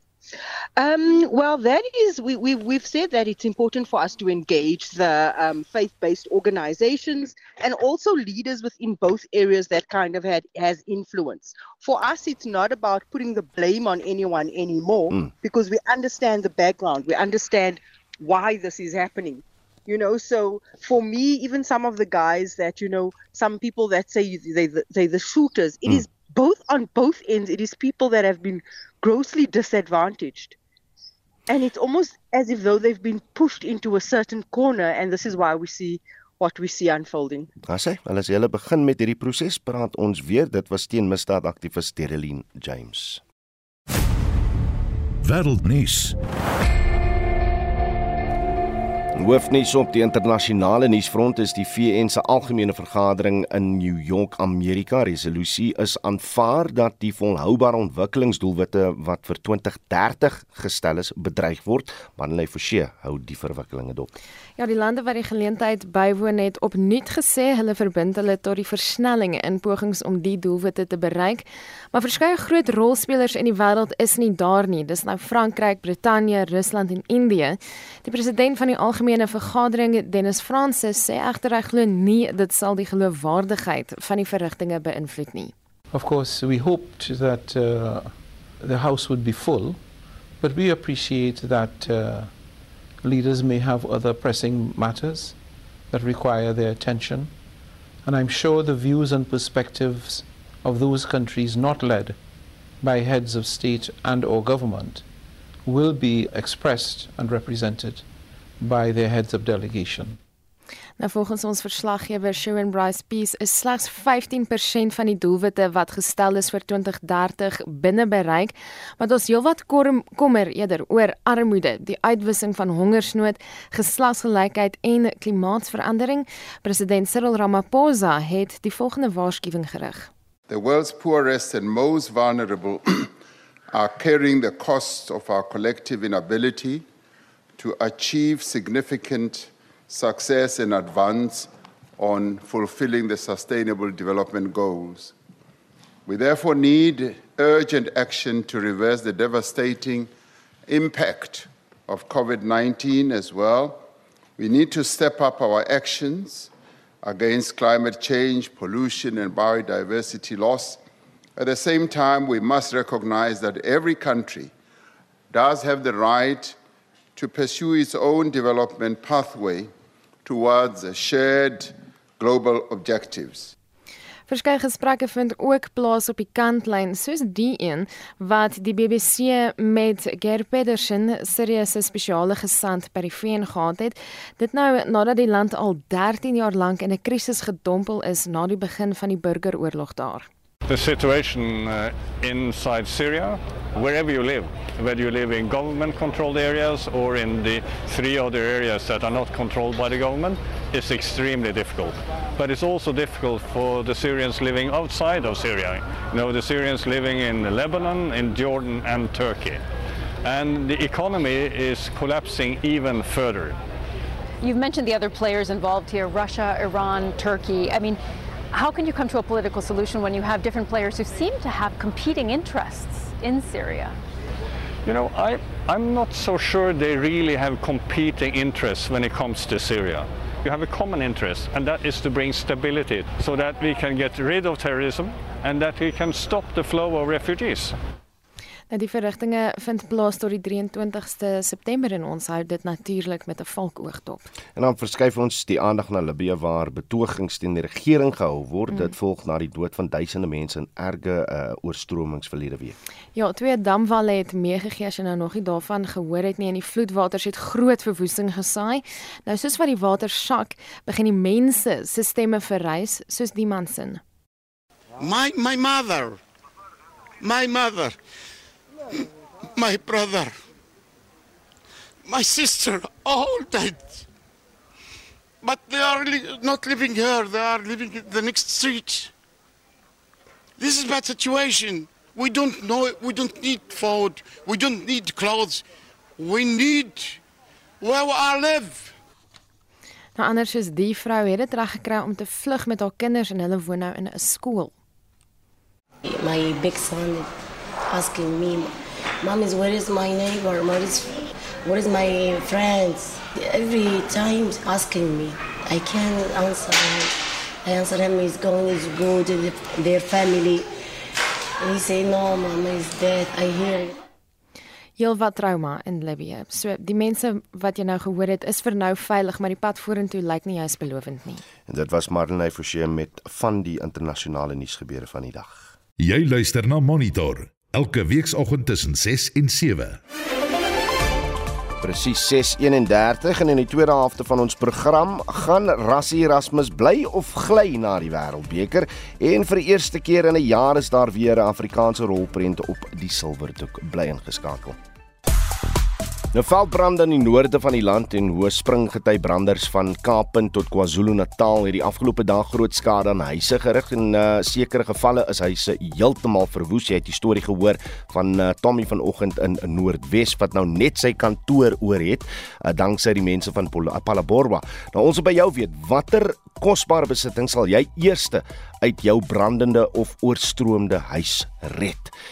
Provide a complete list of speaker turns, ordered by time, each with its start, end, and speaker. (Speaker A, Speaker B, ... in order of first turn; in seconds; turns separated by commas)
Speaker A: 0.8-30.6, Speaker A: 31.5-37.5, Speaker B: 37.6-43.2, Speaker C: 45.2-46.1, Speaker B: 49.1-64.1, Speaker D: 64.6-85.5, Speaker E: 85.9-89.8, Speaker E: 90.4-92.4, Speaker E: 93.0-97.3, Speaker E: 98.0-102.2, Speaker E: 102.8-105.1, Speaker E: 105.7-108.1, Speaker E: 108.6-110.2, Speaker D: 111.0-130.1, Speaker F: 130.5-133.1, Speaker F: 133.7-136.8, Speaker F: 137.6-145.1, Speaker F: 146.1-150.1, Speaker F: 150.7-153.8, Speaker F: 154.4-156.5, Speaker F: 157.0-160.8, Speaker F: 161.4-164.5, Speaker F: 165.3-166.6, Speaker F: 167.2-169.7, Speaker F: 170.2-173.5, Speaker D: 174.3-190.3, Speaker G: 190.7-209.6, Speaker G: 210.2-213.6, Speaker H: 214.4-218.0, Speaker H: 218.5-223.9, Speaker G: 224.8-237.8, Speaker D: 238.7-244.2, Speaker B: 244.6-252.8, Speaker D: 253.2-264.0, Speaker I: 265.0-266.2, Speaker I: 267.2-268.0, Speaker I: 269.6-270.3, Speaker I: 272.1-274.1, Speaker I: 275.4-279.1, Speaker I: 280.6-285.6, Speaker I: 286.2-287.2, Speaker I: 287.8-288.9, Speaker D: 290.2-294.8, Speaker J: 296.1-297.3, Speaker J: 297.9-298.7, Speaker J: 299.2-310.7, Speaker J: 311.6-314.0, Speaker D: 315.0-321.4, Speaker B: 321.7-325.7, Speaker C: 326.0-330.0, Speaker B: 331.8-344.8, Speaker B: 346.3-372.1